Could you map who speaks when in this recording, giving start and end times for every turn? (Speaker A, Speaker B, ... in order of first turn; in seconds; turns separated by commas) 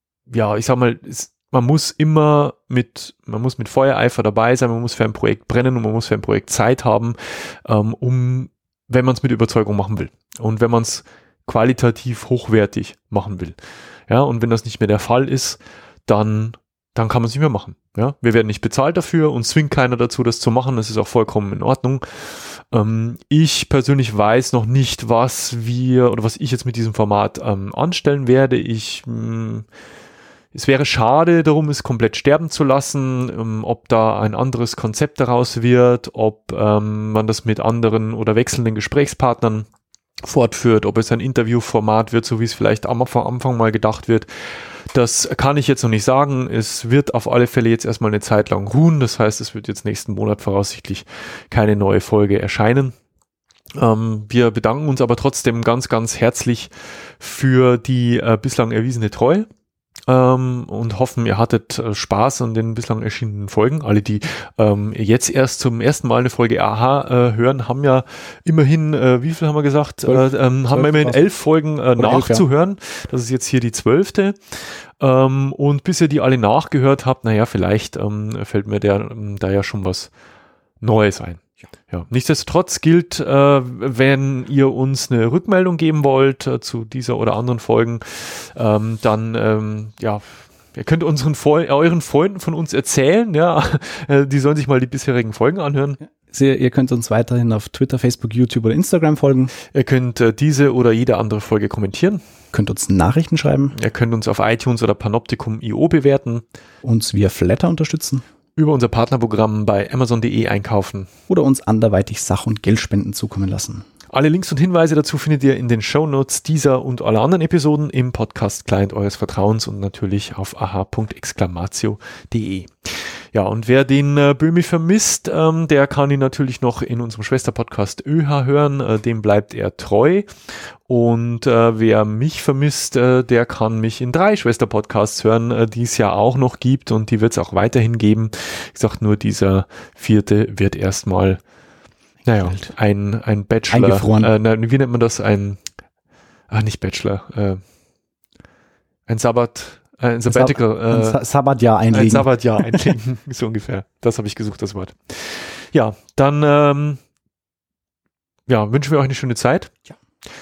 Speaker A: 0.3-29.7, Speaker A: 30.5-39.7, Speaker A: 40.2-53.0, Speaker A: 53.8-59.5, Speaker A: 60.1-80.1, Speaker B: 70.1-71.2, Speaker B: 72.0-72.4, Speaker A: 80.8-96.0, Speaker B: 96.3-99.5, Speaker A: 99.7-102.2, Speaker B: 102.5-103.8, Speaker A: 103.7-106.4, Speaker B: 106.8-108.2, Speaker A: 108.6-111.1, Speaker B: 111.3-113.8, Speaker A: 114.1-141.4, Speaker A: 142.2-145.6, Speaker B: 142.4-142.7, Speaker B: 143.7-144.3, Speaker A: 146.5-147.7, Speaker A: 149.1-151.2, Speaker B: 150.3-152.9, Speaker A: 151.9-157.0, Speaker A: 158.5-159.7